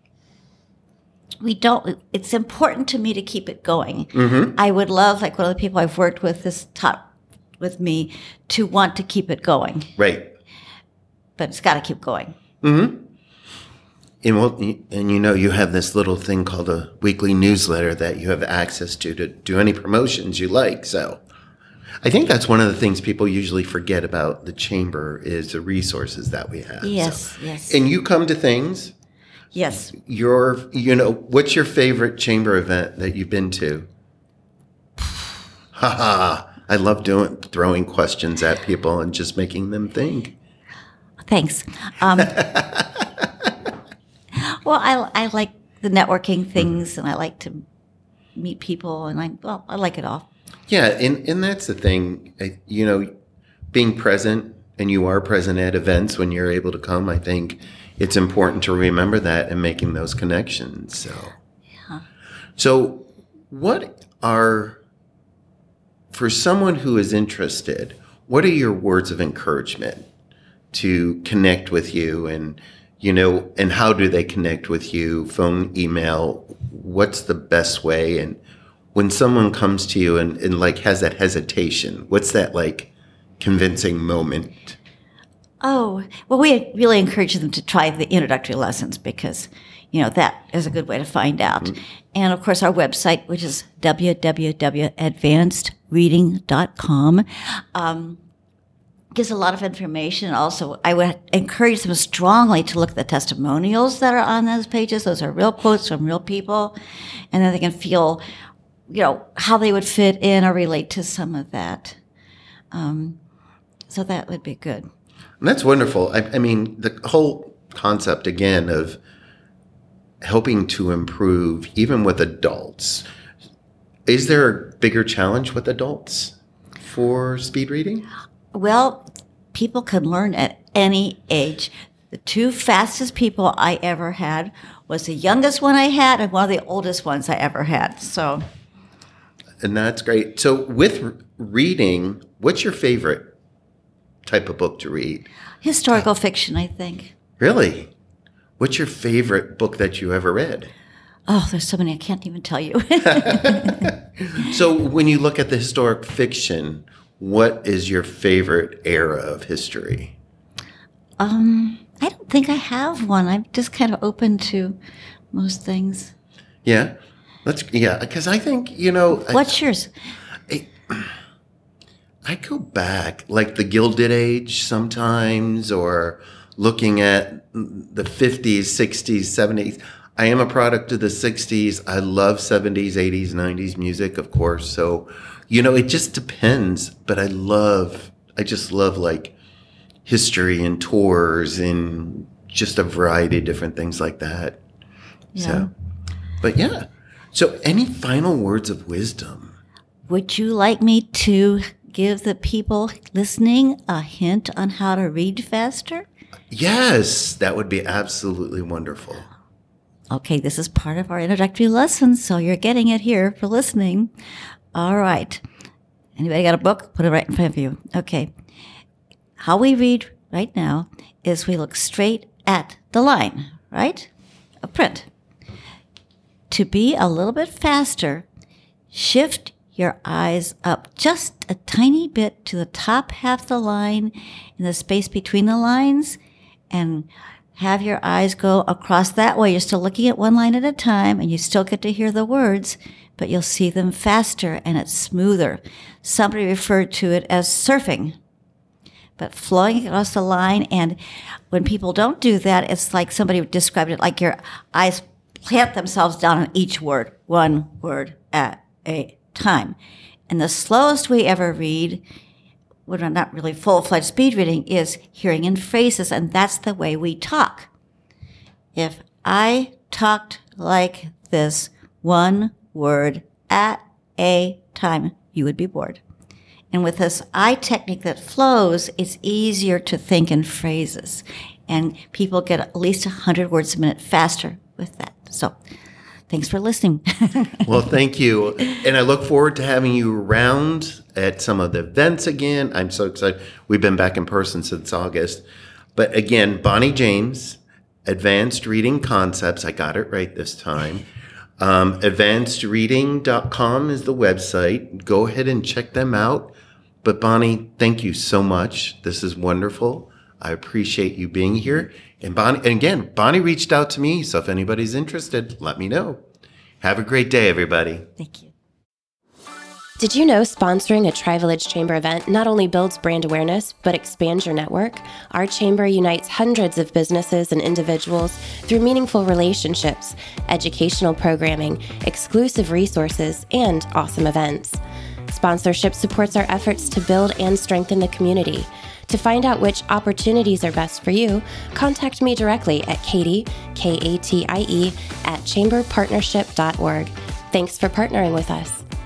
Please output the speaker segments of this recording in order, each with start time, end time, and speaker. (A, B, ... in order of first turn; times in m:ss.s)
0:01.4-0:07.1 A
0:04.1-0:04.5 B
0:07.6-0:09.9 A
0:10.0-0:10.3 B
0:11.4-0:12.4 A
0:12.6-0:13.0 B
0:14.2-0:21.2 B
0:22.0-0:28.9 B
0:26.8-0:27.8 A
0:29.5-0:29.9 A
0:29.7-0:33.9 B
0:35.7-0:40.3 B
0:41.2-0:42.5 A
0:42.2-0:43.0 B
0:44.3-0:47.6 A
0:48.4-0:50.3 A
0:50.7-0:53.1 B
0:53.7-1:01.3 B
1:02.6-1:04.8 B
1:06.1-1:10.1 B
1:10.7-1:18.4 B
1:18.9-1:24.8 B
1:25.6-1:38.2 A
1:39.1-1:46.8 A
1:47.3-1:48.2 A
1:48.9-1:52.0 A
1:52.7-1:53.2 A
1:53.9-1:54.9 A
1:55.4-1:59.0 B
2:00.2-2:03.0 B
2:04.0-2:08.0 B
2:08.5-2:18.4 A
2:19.6-2:23.3 B
2:24.2-2:25.3 B
2:25.6-2:27.1 A
2:27.4-2:27.9 B
2:28.6-2:30.7 B
2:31.3-2:34.5 A
2:33.1-2:40.1 B
2:41.2-2:44.8 A
2:45.3-2:46.1 A
2:46.6-2:49.6 B
2:49.2-2:49.9 A
2:50.5-2:51.2 B
2:52.2-3:09.3 B
3:10.0-3:14.6 B
3:15.3-3:15.7 A
3:15.4-3:15.7 B
3:16.4-3:19.6 B
3:20.1-3:26.0 A
3:26.5-3:29.3 B
3:30.1-3:34.1 A
3:34.7-3:35.4 A
3:36.2-3:38.3 A
3:39.4-3:44.1 A
3:44.6-3:45.1 A
3:46.5-3:48.2 A
3:48.9-3:56.2 A
3:56.7-4:08.2 A
4:09.2-4:11.0 A
4:11.5-4:19.8 A
4:20.3-4:22.0 A
4:22.8-4:27.7 A
4:28.7-4:36.0 A
4:36.7-4:45.6 A
4:46.3-4:47.7 A
4:47.6-4:55.4 B
4:55.9-5:01.0 B
5:01.6-5:16.2 B
5:16.8-5:18.1 B
5:18.2-5:18.5 A
5:20.0-5:48.8 C